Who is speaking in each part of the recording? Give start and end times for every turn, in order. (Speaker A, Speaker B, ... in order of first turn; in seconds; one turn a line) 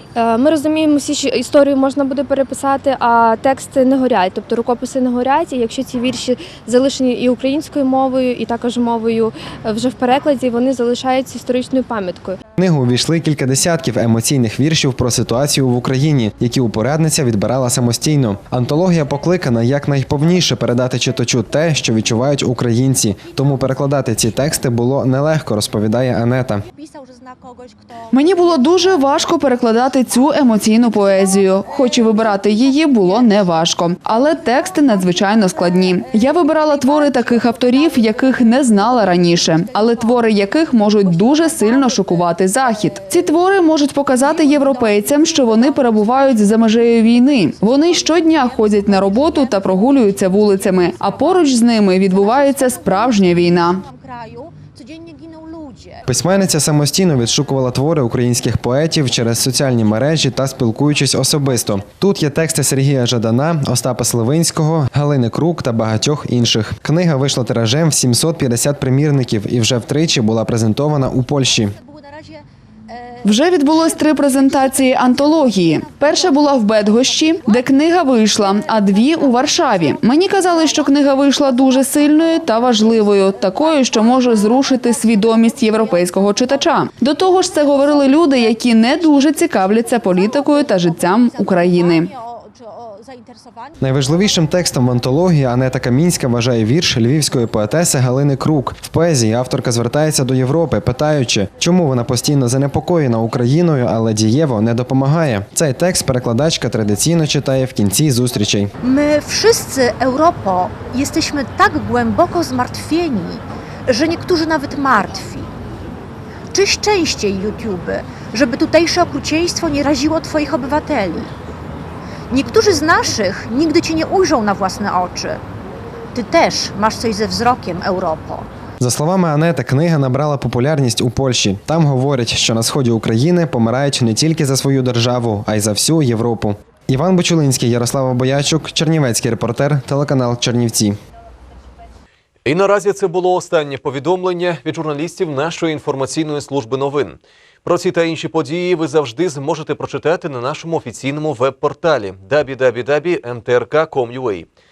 Speaker A: 0.1-12.4
Speaker B: 12.6-26.6
Speaker C: 26.6-28.1
Speaker D: 28.1-53.8
Speaker C: 44.5-47.1
Speaker C: 47.9-51.5
Speaker C: 52.2-56.0
Speaker B: 56.1-71.7
Speaker C: 71.7-73.2
Speaker D: 73.2-92.1
Speaker C: 74.2-77.6
Speaker C: 78.2-80.6
Speaker C: 81.1-81.8
Speaker C: 83.7-85.6
Speaker C: 89.1-90.7
Speaker C: 91.4-93.8
Speaker B: 93.8-108.7
Speaker C: 108.8-115.5
Speaker C: 116.5-121.3
Speaker C: 122.3-125.4
Speaker C: 126.1-128.5
Speaker B: 128.8-141.0
Speaker E: 142.4-154.5